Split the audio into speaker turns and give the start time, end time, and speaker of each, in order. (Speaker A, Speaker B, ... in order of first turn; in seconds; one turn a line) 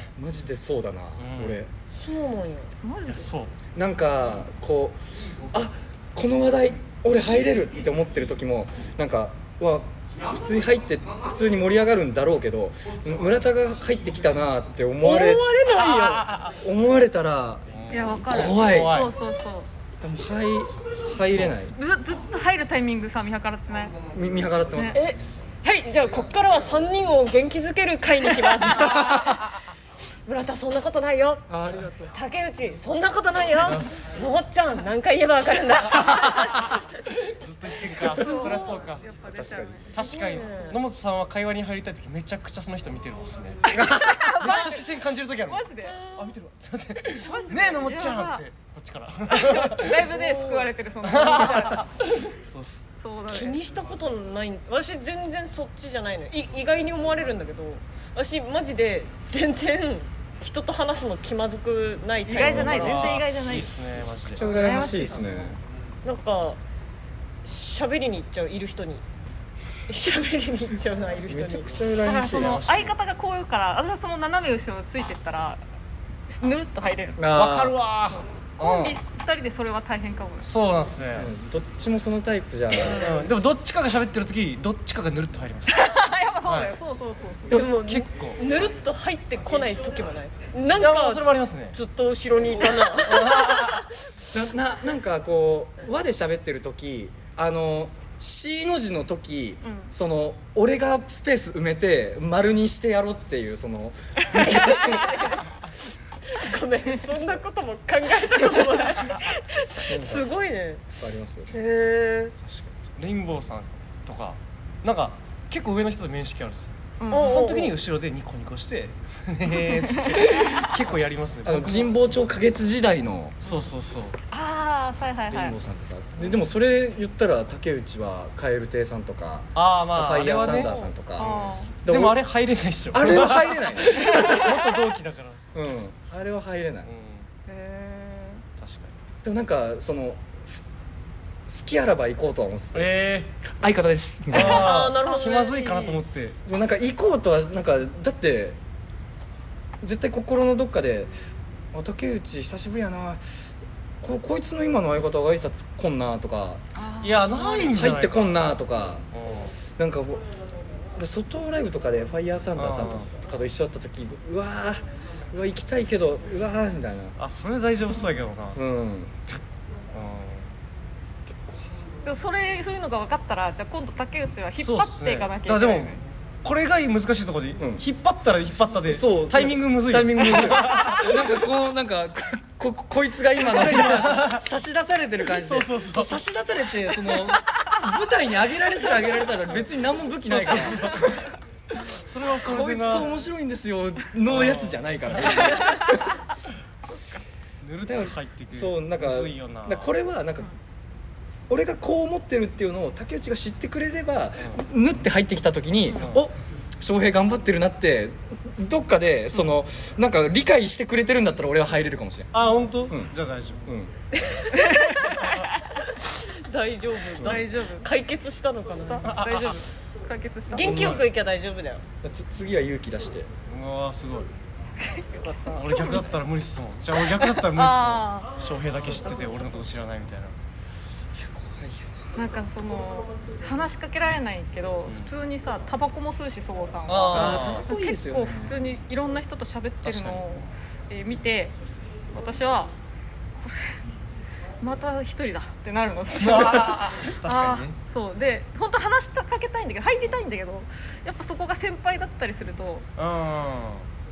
Speaker A: 0.1-1.7
Speaker B: 1.2-1.6
Speaker C: 1.9-2.7
Speaker D: 2.8-3.3
Speaker B: 3.1-3.5
Speaker A: 3.7-15.4
Speaker C: 15.0-16.3
Speaker B: 15.7-16.5
Speaker A: 16.5-17.7
Speaker B: 17.7-19.1
Speaker D: 17.9-19.7
Speaker A: 18.2-19.1
Speaker A: 20.0-21.7
Speaker B: 21.2-21.7
Speaker D: 21.7-23.9
Speaker A: 24.1-25.0
Speaker C: 24.9-29.4
Speaker C: 30.2-36.8
Speaker A: 31.5-32.1
Speaker B: 33.6-34.2
Speaker B: 37.0-50.0
Speaker D: 38.0-39.9
Speaker C: 38.2-38.7
Speaker C: 39.9-40.8
Speaker D: 43.7-44.9
Speaker D: 45.5-46.0
Speaker D: 47.1-48.4
Speaker D: 49.3-51.9
Speaker C: 50.0-50.7
Speaker B: 51.0-52.9
Speaker D: 53.0-53.6
Speaker C: 53.2-63.2
Speaker D: 62.2-63.7
Speaker B: 62.5-65.0
Speaker A: 64.3-65.6
Speaker D: 64.5-65.4
Speaker C: 66.0-66.6
Speaker C: 67.4-69.0
Speaker C: 69.9-71.7
Speaker A: 71.3-72.6
Speaker D: 72.0-75.6
Speaker B: 72.3-72.9
Speaker D: 76.3-77.2
Speaker A: 77.2-77.8
Speaker B: 77.2-79.0
Speaker D: 78.6-80.5
Speaker B: 80.4-81.3
Speaker A: 81.0-83.2
Speaker C: 82.8-83.2
Speaker B: 82.8-86.7
Speaker D: 85.7-87.7
Speaker C: 87.5-93.8
Speaker B: 87.5-88.4
Speaker B: 90.7-91.8
Speaker B: 92.9-93.8
Speaker A: 94.3-105.4
Speaker D: 99.6-99.9
Speaker C: 104.4-105.5
Speaker C: 106.2-110.8
Speaker A: 109.9-110.3
Speaker A: 110.9-111.5
Speaker C: 111.5-112.3
Speaker B: 112.3-121.9
Speaker D: 117.0-117.5
Speaker C: 117.1-117.7
Speaker D: 119.5-120.8
Speaker A: 121.4-123.4
Speaker B: 123.4-124.2
Speaker D: 124.3-125.5
Speaker A: 125.3-132.2
Speaker B: 129.5-135.5
Speaker D: 130.4-131.7
Speaker A: 132.9-134.5
Speaker D: 134.1-134.5
Speaker A: 135.5-136.9
Speaker B: 136.8-137.3
Speaker D: 137.4-138.4
Speaker B: 138.6-139.0
Speaker A: 139.2-140.7
Speaker A: 141.5-144.8
Speaker B: 142.7-143.3
Speaker B: 144.3-146.4
Speaker C: 144.3-146.0
Speaker A: 146.4-148.6
Speaker A: 149.8-151.1
Speaker A: 151.7-153.2
Speaker A: 154.0-156.6
Speaker D: 156.7-157.9
Speaker B: 157.0-158.4
Speaker A: 157.7-159.0
Speaker B: 159.1-159.5
Speaker A: 159.8-160.2
Speaker A: 160.9-167.1
Speaker B: 162.6-163.1
Speaker B: 167.2-168.6
Speaker A: 168.5-169.4
Speaker B: 169.9-170.5
Speaker A: 171.4-171.6
Speaker D: 172.0-176.0
Speaker B: 174.6-181.1
Speaker A: 177.6-177.8
Speaker A: 178.4-191.3
Speaker D: 180.4-181.1
Speaker B: 183.4-184.4
Speaker B: 185.3-186.2
Speaker B: 190.1-191.3
Speaker B: 191.9-193.1
Speaker A: 192.4-196.0
Speaker B: 194.3-195.6
Speaker B: 197.6-199.9
Speaker A: 197.8-200.5
Speaker A: 201.5-213.1
Speaker B: 212.3-213.6
Speaker A: 213.7-213.9
Speaker C: 214.1-215.2
Speaker D: 214.7-214.9
Speaker B: 215.0-215.5
Speaker C: 216.1-219.2
Speaker D: 217.2-217.9
Speaker D: 218.8-221.0
Speaker B: 219.0-219.6
Speaker C: 220.5-221.8
Speaker A: 220.6-221.1
Speaker A: 222.0-223.3
Speaker B: 223.5-224.3
Speaker B: 225.5-230.3
Speaker D: 225.7-226.0
Speaker D: 227.0-228.4
Speaker D: 229.0-229.5
Speaker A: 231.2-232.0
Speaker D: 232.1-241.5
Speaker B: 234.9-235.1
Speaker B: 236.9-237.7
Speaker A: 237.1-238.6
Speaker B: 239.8-240.4
Speaker D: 242.1-242.7
Speaker D: 243.4-243.7
Speaker D: 244.6-252.9
Speaker B: 246.2-247.7
Speaker B: 252.9-253.9